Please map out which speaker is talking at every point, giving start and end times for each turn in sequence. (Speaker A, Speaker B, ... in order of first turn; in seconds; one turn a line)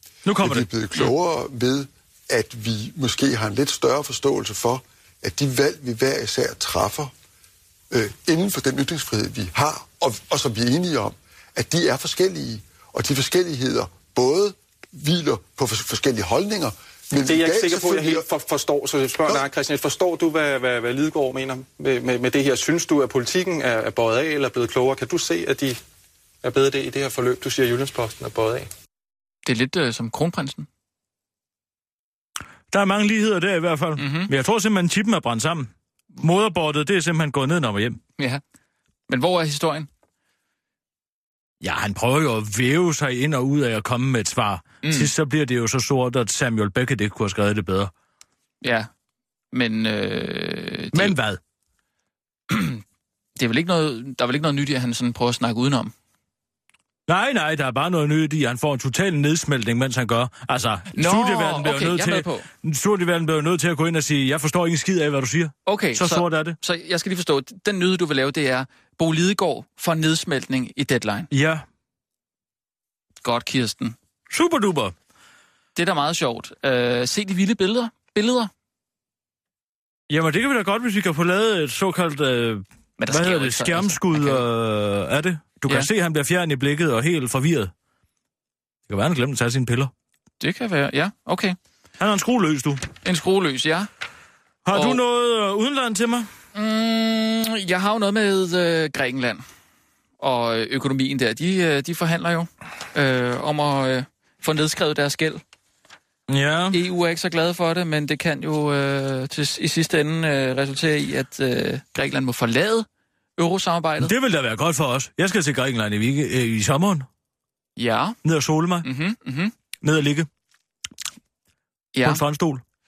Speaker A: 0.2-0.7
Speaker B: 0.4-7.1
Speaker B: 7.9-18.2
Speaker C: 17.2-25.8
Speaker C: 26.4-28.7
Speaker D: 29.4-30.7
Speaker A: 32.7-38.0
Speaker D: 34.0-34.3
Speaker D: 39.1-39.9
Speaker A: 41.6-47.9
Speaker D: 44.8-45.1
Speaker D: 48.6-48.9
Speaker D: 49.5-51.1
Speaker A: 50.9-51.4
Speaker D: 52.5-52.8
Speaker D: 53.4-55.9
Speaker A: 57.1-66.6
Speaker D: 61.0-62.5
Speaker D: 65.7-71.3
Speaker A: 71.3-71.6
Speaker D: 73.2-74.0
Speaker A: 74.3-74.9
Speaker D: 75.8-78.5
Speaker A: 80.1-87.7
Speaker D: 83.0-84.4
Speaker A: 88.9-89.9
Speaker D: 90.4-91.6
Speaker A: 92.0-92.9
Speaker D: 93.0-93.9
Speaker A: 94.6-96.3
Speaker D: 94.7-95.0
Speaker D: 96.5-99.4
Speaker D: 100.2-105.4
Speaker A: 106.3-106.8
Speaker D: 106.7-112.8
Speaker D: 113.4-114.1
Speaker A: 114.0-117.1
Speaker D: 117.8-118.2
Speaker A: 118.2-118.9
Speaker D: 118.8-119.5
Speaker A: 119.8-120.3
Speaker D: 121.9-122.2
Speaker A: 122.0-122.6